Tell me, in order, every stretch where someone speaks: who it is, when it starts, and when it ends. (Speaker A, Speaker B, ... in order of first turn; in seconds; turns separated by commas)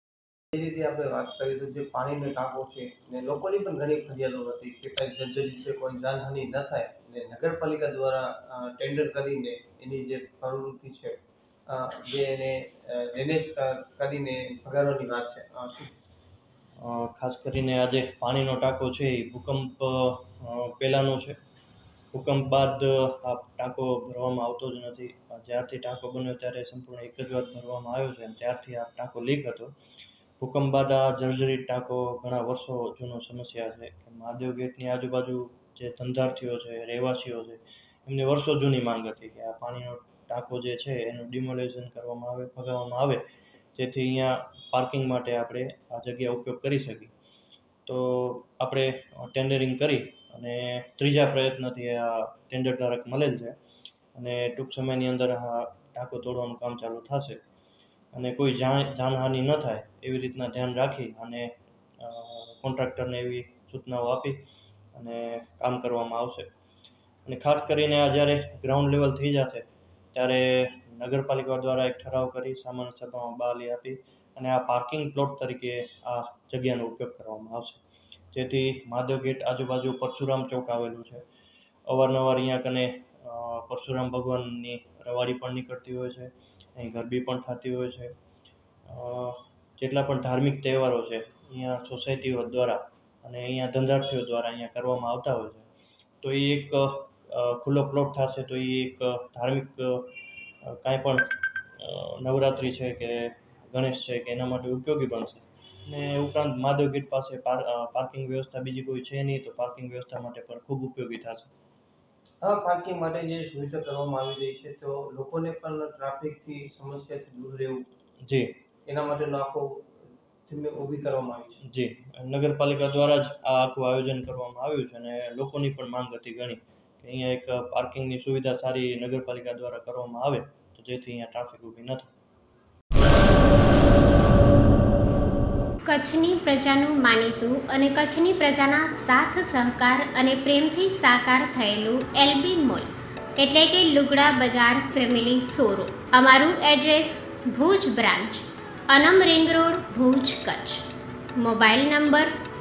Speaker A: 0.5-11.1, Speaker A: 11.7-15.9, Speaker B: 16.8-21.4, Speaker B: 22.1-29.7, Speaker B: 30.4-43.2, Speaker B: 43.8-47.1, Speaker B: 47.9-53.6, Speaker B: 54.1-57.4, Speaker B: 58.1-64.4, Speaker B: 65.0-66.5, Speaker B: 67.2-77.8, Speaker B: 78.3-81.2, Speaker B: 81.9-88.1, Speaker B: 88.9-95.7, Speaker B: 96.2-100.1, Speaker B: 100.7-101.3, Speaker B: 101.8-111.5, Speaker A: 112.4-117.8, Speaker B: 118.2-118.5, Speaker A: 118.8-119.9, Speaker A: 120.5-121.6, Speaker B: 121.6-132.1, Speaker C: 135.8-150.8, Speaker C: 151.3-152.3